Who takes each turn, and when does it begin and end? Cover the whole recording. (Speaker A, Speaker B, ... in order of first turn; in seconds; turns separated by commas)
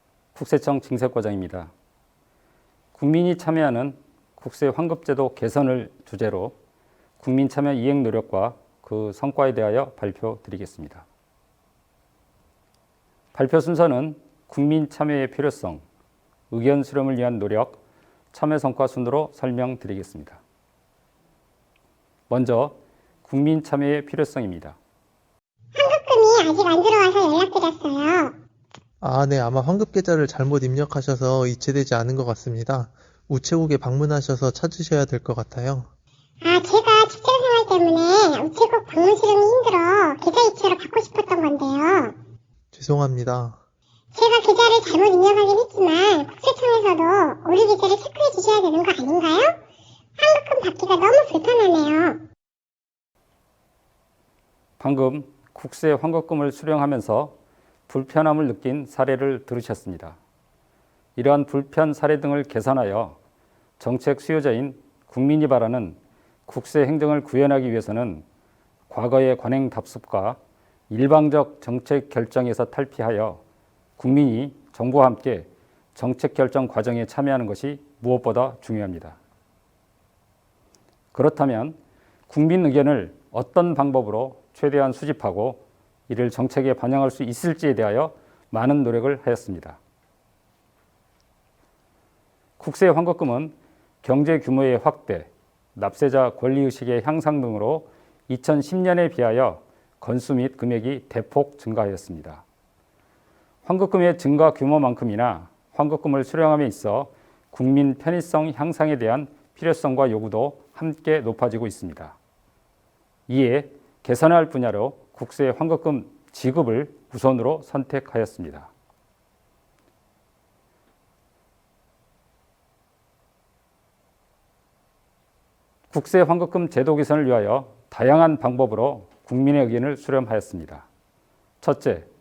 Speaker A: 0.3-1.7, Speaker A: 2.9-6.5, Speaker A: 7.2-11.1, Speaker A: 13.3-15.8, Speaker A: 16.5-17.8, Speaker A: 18.3-20.4, Speaker A: 22.3-24.8, Speaker B: 25.8-28.4, Speaker C: 29.0-35.9, Speaker B: 36.4-42.2, Speaker C: 42.7-43.6, Speaker B: 44.1-49.6, Speaker B: 50.2-52.2, Speaker A: 54.8-57.4, Speaker A: 57.9-60.2, Speaker A: 61.2-63.2, Speaker A: 63.8-68.2, Speaker A: 68.9-70.4, Speaker A: 70.9-73.4, Speaker A: 74.0-79.2, Speaker A: 81.1-81.8, Speaker A: 82.3-89.8, Speaker A: 92.6-102.4, Speaker A: 103.7-112.2, Speaker A: 113.3-118.7, Speaker A: 125.9-130.9, Speaker A: 131.6-132.1